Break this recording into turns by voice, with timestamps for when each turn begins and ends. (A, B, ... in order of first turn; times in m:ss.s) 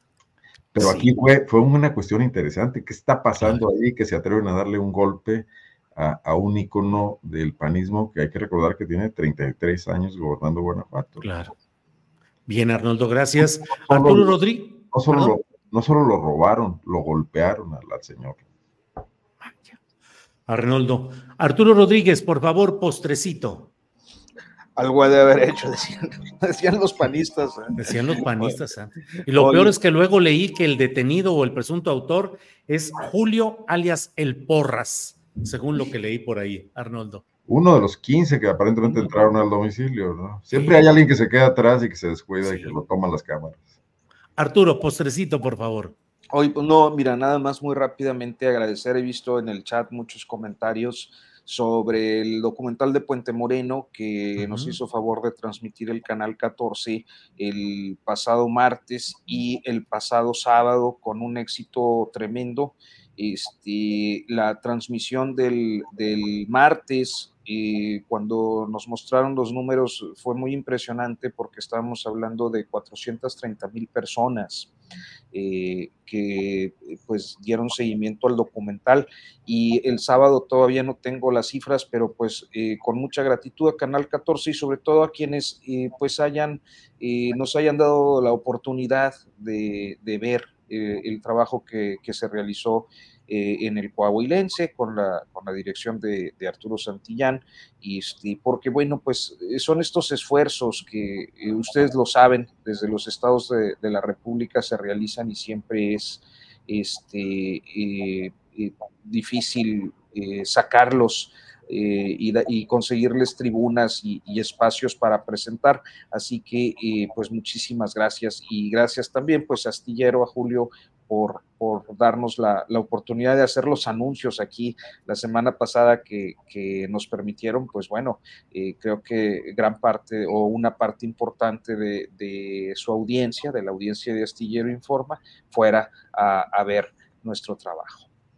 0:00.7-0:11.3 A
0:00.8-0:01.1 B
0:11.2-0:11.5 B
0:12.5-0:15.4 B
0:13.8-0:14.4 A
0:14.9-0:18.4 A
0:20.5-0:23.7 B
0:24.8-0:28.5 C
0:27.8-0:37.2 B
0:29.3-0:29.7 C
0:37.5-0:43.7 A
0:40.5-0:40.8 B
0:42.4-0:42.8 B
0:44.4-0:45.9 B
0:46.3-1:14.7 C
0:54.4-0:54.8 B
1:15.3-2:18.1 C